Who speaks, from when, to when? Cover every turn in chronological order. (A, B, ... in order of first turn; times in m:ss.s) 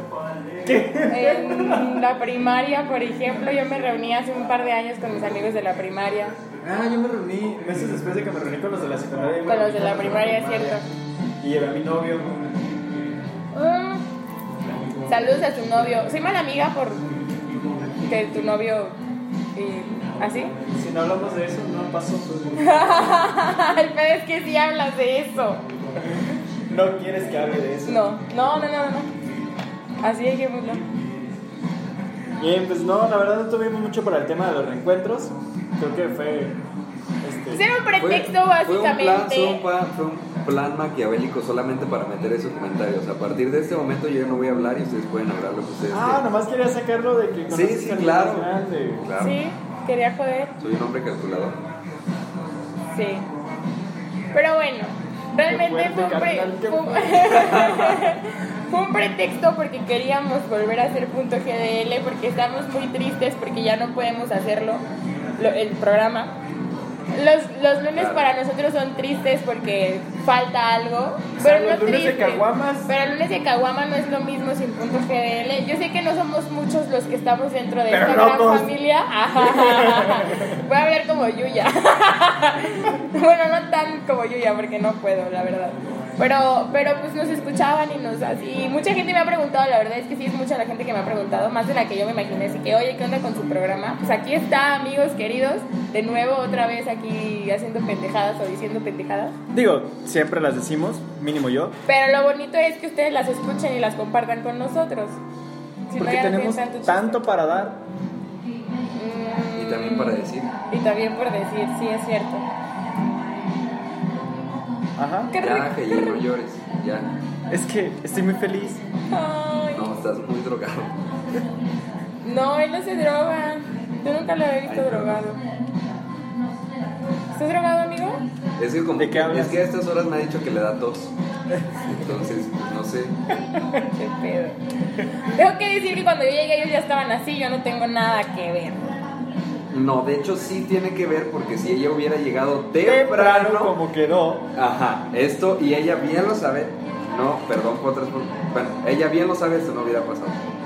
0:00.6-0:02.0 A
0:01.1-0:06.4 B
0:06.6-0:10.8 A
0:09.5-0:10.8 B
0:11.4-0:12.4 A
0:13.5-0:14.0 B
0:15.1-0:17.0 B
0:18.0-0:19.0 B
0:19.5-0:20.5 B
0:20.7-0:23.0 A
0:22.6-0:25.6 B
0:26.7-0:28.0 A
0:27.8-0:29.1 B
0:30.0-0:30.8 B
0:32.4-0:36.6 A
0:37.2-0:37.6 A
0:37.5-0:39.6 B
0:38.0-0:46.2 C
0:45.9-0:49.0 A
0:47.5-0:49.4 C
0:49.2-0:50.5 B
0:50.6-0:51.6 C
0:52.9-0:53.3 B
0:54.3-1:04.8 B
0:55.4-0:57.6 A
0:57.4-0:58.1 C
1:05.4-1:06.3 B
1:07.1-1:39.3 B
1:07.9-1:08.3 C
1:11.4-1:12.9 A
1:17.9-1:18.7 A
1:19.4-1:20.6 A
1:39.5-1:41.7 A
1:41.8-1:45.2 B
1:45.9-1:47.2 B
1:46.0-1:47.8 A
1:48.9-1:52.4 B
1:49.5-1:50.5 C
1:55.0-1:55.3 A
1:55.3-1:56.2 B
1:55.4-1:57.1 C
1:57.5-1:58.8 A
1:59.1-2:00.0 B
1:59.7-2:01.0 C
2:02.2-2:05.4 B
2:04.6-2:05.3 C
2:07.3-2:08.2 B
2:08.6-2:11.1 C
2:09.0-2:09.6 A
2:12.0-2:13.3 C
2:13.4-2:13.7 A
2:13.8-2:14.6 B
2:15.3-2:18.9 B
2:19.7-2:23.8 C
2:22.8-2:24.5 A
2:24.6-2:30.4 C